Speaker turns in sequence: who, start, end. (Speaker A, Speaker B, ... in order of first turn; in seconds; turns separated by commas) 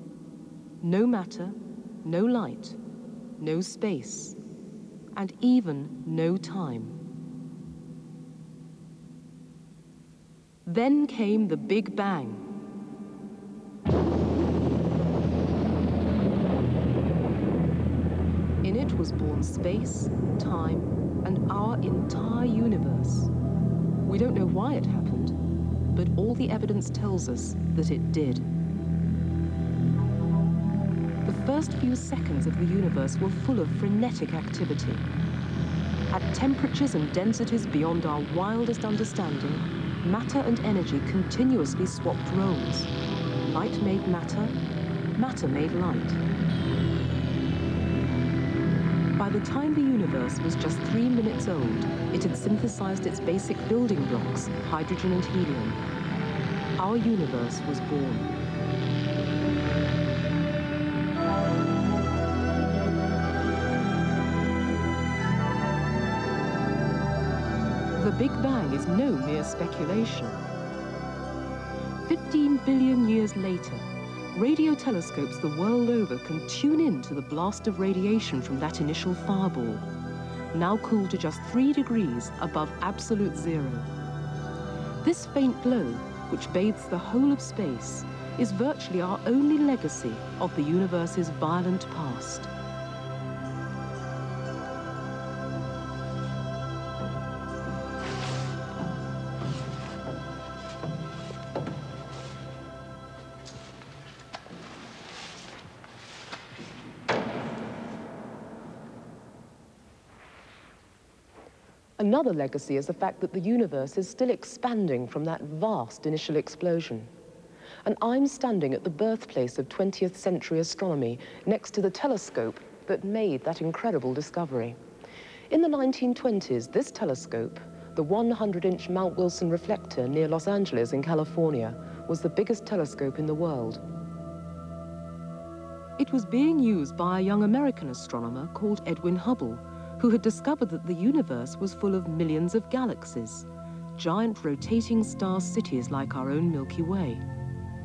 Speaker A: 0.8-2.8, Speaker A: 3.4-4.4, Speaker A: 5.1-7.0, Speaker A: 10.7-12.5, Speaker A: 18.6-23.3, Speaker A: 24.0-25.4, Speaker A: 25.9-28.4, Speaker A: 31.2-35.0, Speaker A: 36.1-42.9, Speaker A: 43.4-44.6, Speaker A: 45.1-46.2, Speaker A: 49.2-55.8, Speaker A: 56.8-58.3, Speaker A: 68.0-70.4, Speaker A: 72.0-79.9, Speaker A: 80.5-83.9, Speaker A: 85.0-92.5, Speaker A: 112.0-117.1, Speaker A: 117.8-124.8, Speaker A: 125.5-133.8, Speaker A: 136.0-147.2